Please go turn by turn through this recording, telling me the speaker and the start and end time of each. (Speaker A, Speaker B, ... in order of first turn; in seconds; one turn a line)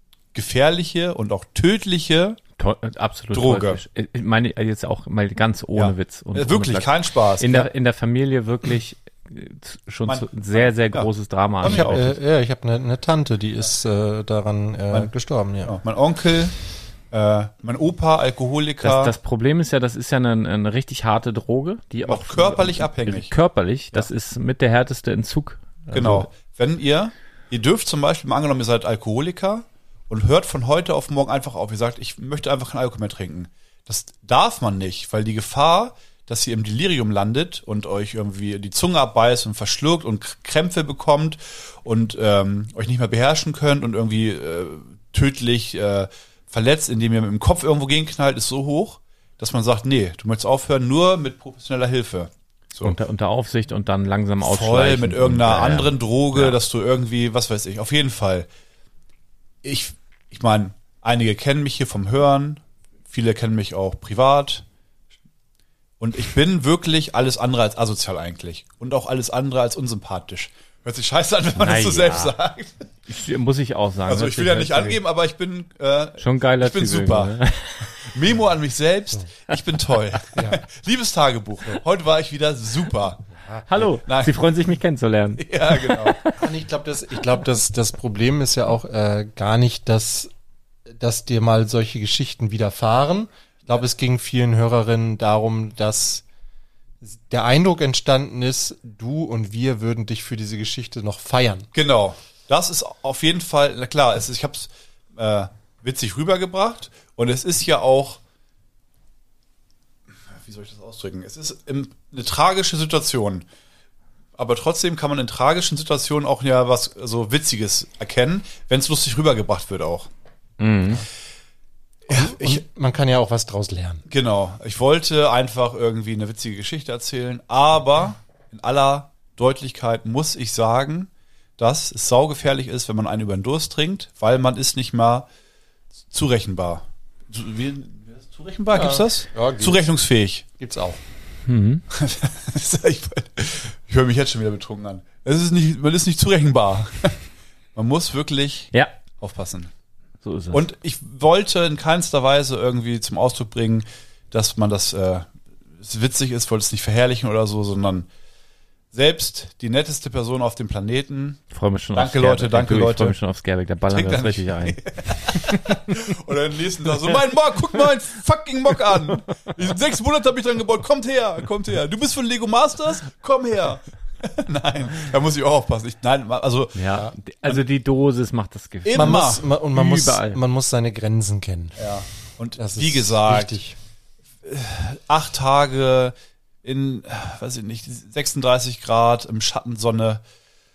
Speaker A: 0.3-2.4
Speaker B: 2.6-12.2
Speaker A: 3.3-3.8
Speaker A: 5.7-7.7
Speaker A: 10.1-11.1
Speaker A: 11.6-12.0
Speaker C: 11.6-15.8
Speaker A: 14.9-16.6
Speaker A: 17.1-19.1
Speaker B: 18.8-26.3
Speaker A: 22.0-23.3
Speaker A: 25.9-53.0
Speaker B: 52.8-56.6
Speaker A: 54.4-58.5
Speaker A: 59.6-64.6
Speaker A: 66.0-72.8
Speaker B: 71.6-72.3
Speaker B: 73.1-75.0
Speaker A: 74.1-77.3
Speaker B: 76.2-78.1
Speaker A: 78.0-83.2
Speaker C: 80.3-80.6
Speaker B: 83.7-86.4
Speaker A: 84.1-84.3
Speaker A: 85.4-86.2
Speaker C: 86.4-90.3
Speaker C: 90.9-96.2
Speaker C: 97.0-101.7
Speaker A: 101.7-108.2
Speaker A: 110.4-113.5
Speaker A: 114.3-120.1
Speaker B: 120.6-121.0
Speaker A: 122.1-122.6
Speaker C: 122.1-124.0
Speaker A: 124.1-135.2
Speaker A: 136.1-140.4
Speaker C: 138.7-139.9
Speaker C: 140.6-141.0
Speaker B: 141.4-141.8
Speaker A: 141.9-147.2
Speaker A: 147.7-149.7
Speaker B: 150.2-150.6
Speaker A: 150.5-155.3
Speaker A: 155.8-158.1
Speaker A: 158.9-161.4
Speaker B: 161.5-165.8
Speaker A: 161.9-163.2
Speaker A: 163.9-177.6
Speaker B: 176.7-180.4
Speaker A: 178.8-179.4
Speaker C: 178.9-181.9
Speaker A: 181.8-183.6
Speaker C: 182.6-183.8
Speaker A: 184.4-190.2